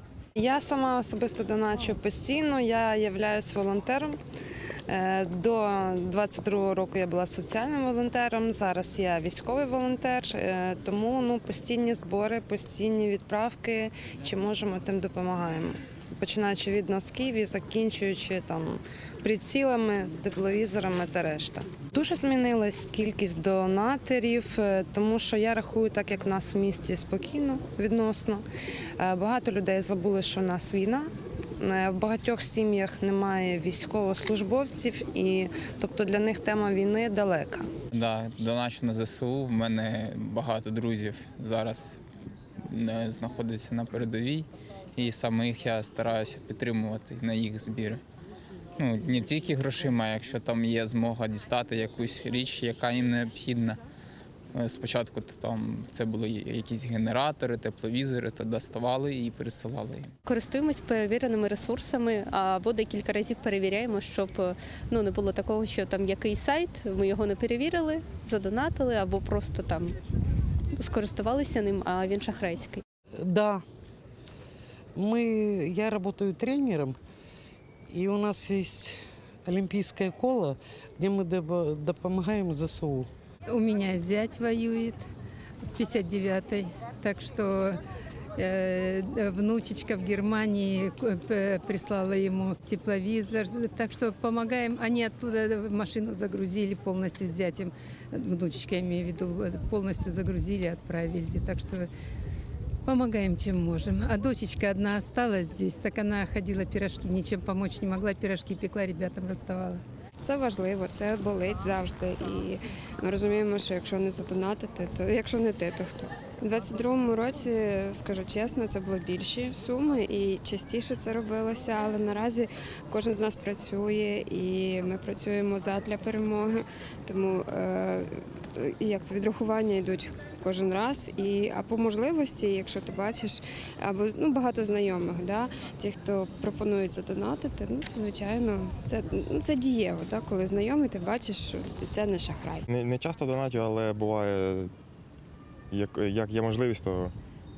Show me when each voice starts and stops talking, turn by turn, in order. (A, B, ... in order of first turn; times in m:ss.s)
0:00.4-0:04.2 A
0:04.9-0:28.4 A
0:29.0-0:31.1 A
0:31.6-0:37.7 A
0:37.9-0:42.0 B
0:42.7-0:48.0 B
0:48.8-0:53.8 B
0:54.5-1:00.1 B
1:00.2-1:10.0 C
1:10.7-1:12.8 C
1:13.2-1:13.6 D
1:14.9-1:17.0 D
1:17.9-1:23.1 D
1:23.5-1:25.0 E
1:25.6-1:27.8 E
1:28.4-1:41.9 E
1:42.8-1:49.8 E
1:50.2-2:22.6 F
2:22.7-2:24.7 G
2:25.7-2:27.1 G